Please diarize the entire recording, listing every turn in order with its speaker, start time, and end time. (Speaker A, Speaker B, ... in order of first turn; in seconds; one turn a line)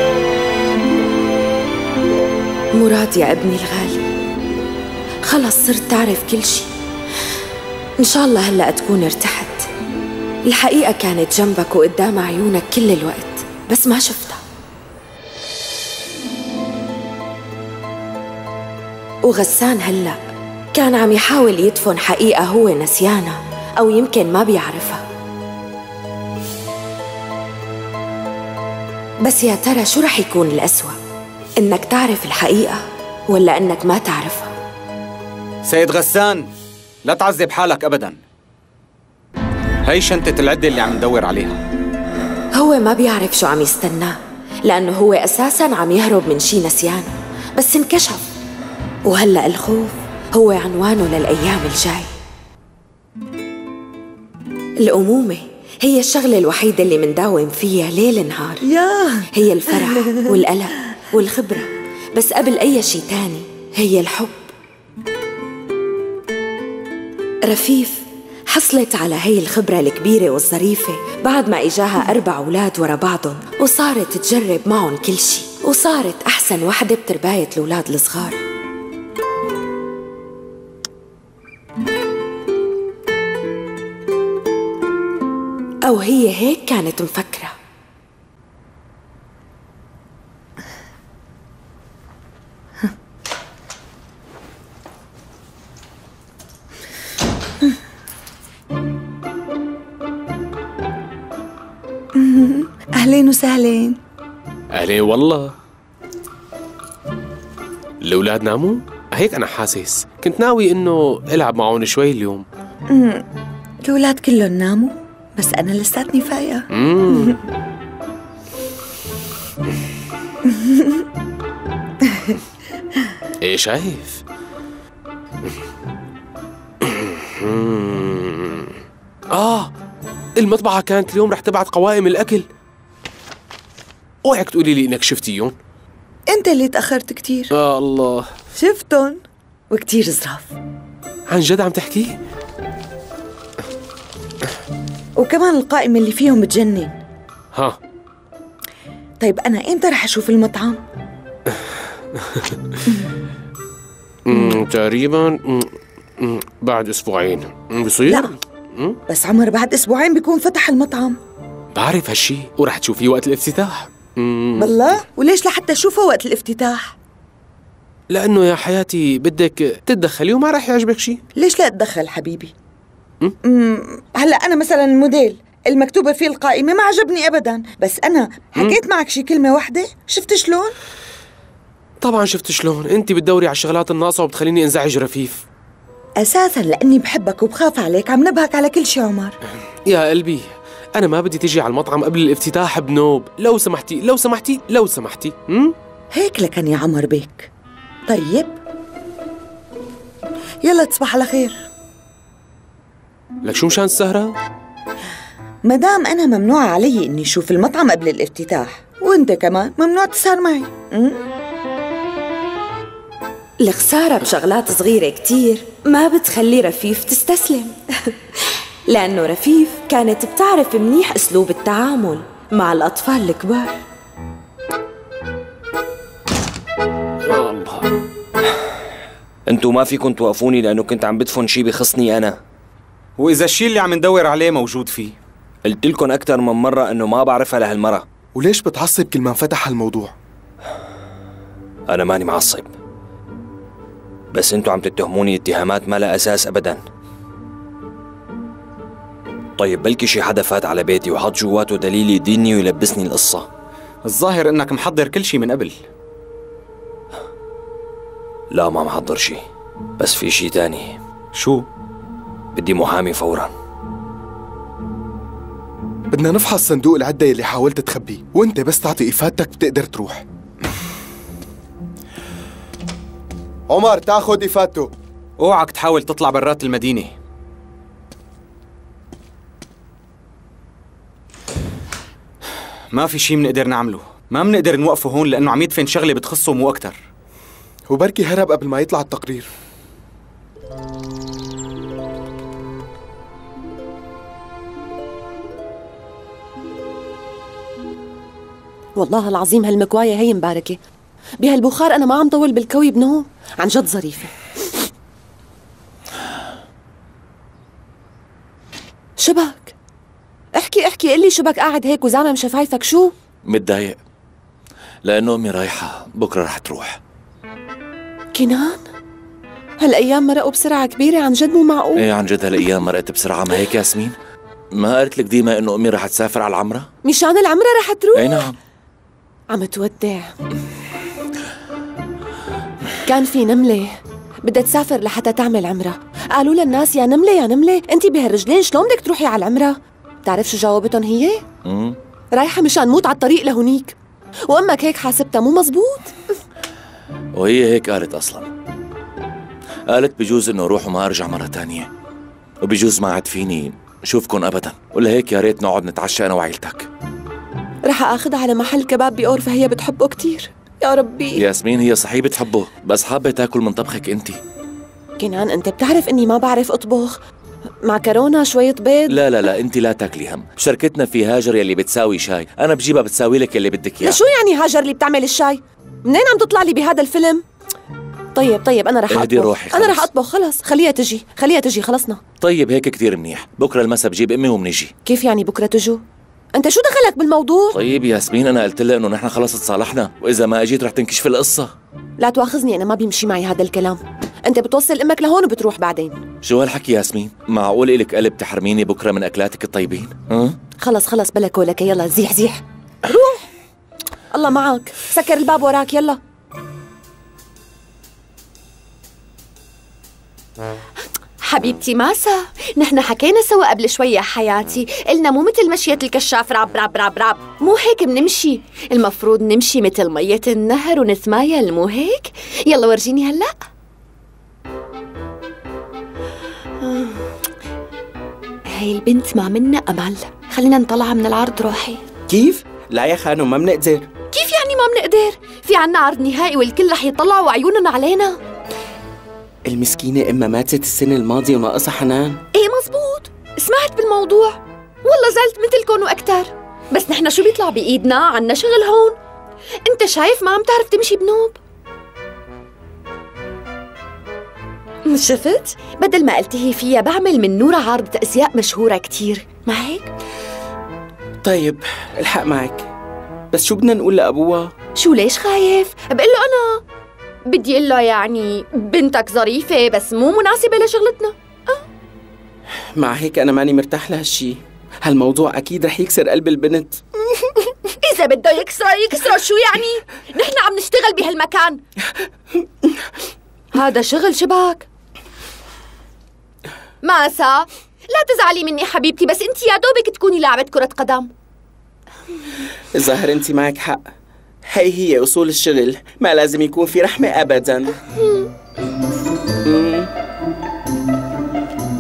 Speaker A: 2.8-4.0
Speaker A: 5.3-6.7
Speaker A: 8.0-9.7
Speaker A: 10.5-14.4
Speaker A: 19.2-20.2
Speaker A: 20.7-25.0
Speaker A: 29.2-31.0
Speaker A: 31.6-34.5
Speaker B: 35.6-36.5
Speaker B: 37.0-38.2
Speaker B: 39.8-41.6
Speaker A: 42.5-48.2
Speaker A: 49.0-52.1
Speaker A: 54.8-58.6
Speaker C: 58.6-60.4
Speaker A: 59.3-64.5
Speaker A: 67.4-78.4
Speaker A: 85.8-87.5
Speaker C: 102.1-104.0
Speaker D: 104.7-105.5
Speaker D: 108.0-112.4
Speaker C: 112.9-113.2
Speaker C: 113.8-117.3
Speaker D: 116.7-117.4
Speaker C: 120.5-121.0
Speaker D: 123.4-124.2
Speaker D: 126.8-128.7
Speaker D: 129.3-129.7
Speaker D: 130.4-132.4
Speaker D: 134.2-135.5
Speaker C: 136.3-137.5
Speaker D: 137.5-138.3
Speaker C: 138.5-140.5
Speaker D: 141.3-142.2
Speaker C: 145.2-146.9
Speaker C: 149.2-150.8
Speaker D: 154.2-159.0
Speaker C: 159.1-161.2
Speaker D: 161.7-164.7
Speaker C: 164.6-166.9
Speaker D: 168.1-171.2
Speaker C: 171.3-172.5
Speaker C: 173.4-180.7
Speaker D: 182.0-185.4
Speaker C: 186.2-189.3
Speaker D: 189.9-195.7
Speaker C: 196.1-197.5
Speaker C: 198.1-198.6
Speaker C: 200.6-201.6
Speaker D: 203.4-204.3
Speaker C: 205.6-211.2
Speaker A: 213.6-217.8
Speaker A: 218.9-223.8
Speaker D: 227.3-227.8
Speaker E: 229.5-232.4
Speaker B: 233.2-235.2
Speaker E: 235.6-238.0
Speaker F: 238.3-240.1
Speaker E: 241.9-242.7
Speaker E: 244.3-246.8
Speaker E: 249.6-253.5
Speaker B: 254.0-255.8
Speaker E: 258.5-259.4
Speaker E: 260.0-261.0
Speaker E: 262.5-263.5
Speaker F: 266.1-270.2
Speaker B: 273.7-277.1
Speaker B: 282.9-287.0
Speaker F: 287.9-289.5
Speaker G: 298.9-300.8
Speaker G: 301.4-304.3
Speaker G: 309.2-309.7
Speaker G: 310.5-313.1
Speaker H: 313.5-314.0
Speaker H: 315.0-317.0
Speaker G: 318.3-318.8
Speaker G: 319.8-322.1
Speaker H: 322.0-324.1
Speaker H: 324.7-326.9
Speaker G: 327.0-328.5
Speaker H: 328.2-328.5
Speaker G: 329.5-330.3
Speaker G: 333.1-341.4
Speaker H: 341.6-341.9
Speaker G: 342.3-343.9
Speaker G: 344.5-346.1
Speaker H: 347.4-348.5
Speaker H: 349.9-351.9
Speaker H: 352.6-356.9
Speaker G: 357.9-361.4
Speaker H: 361.4-364.4
Speaker G: 365.2-367.2
Speaker G: 367.8-369.2
Speaker H: 369.1-374.1
Speaker G: 374.0-377.4
Speaker G: 378.3-382.2
Speaker H: 379.1-380.0
Speaker H: 382.4-384.9
Speaker G: 385.0-386.0
Speaker G: 386.5-387.8
Speaker H: 387.7-391.7
Speaker G: 392.2-396.2
Speaker H: 396.4-400.5
Speaker G: 400.8-403.4
Speaker G: 404.3-406.2
Speaker I: 411.4-423.5
Speaker I: 426.8-427.2
Speaker I: 428.8-430.4
Speaker G: 428.9-429.4
Speaker G: 430.3-432.0
Speaker J: 432.3-434.1
Speaker I: 434.3-438.4
Speaker J: 439.6-442.4
Speaker I: 442.5-449.2
Speaker I: 449.9-451.6
Speaker I: 455.1-460.1
Speaker J: 461.4-462.9
Speaker J: 463.5-464.7
Speaker I: 465.0-466.8
Speaker I: 467.5-471.8
Speaker J: 472.9-477.0
Speaker I: 478.0-481.8
Speaker I: 483.7-484.9
Speaker I: 487.0-491.3
Speaker J: 492.9-494.1
Speaker J: 494.6-498.0
Speaker J: 499.6-500.1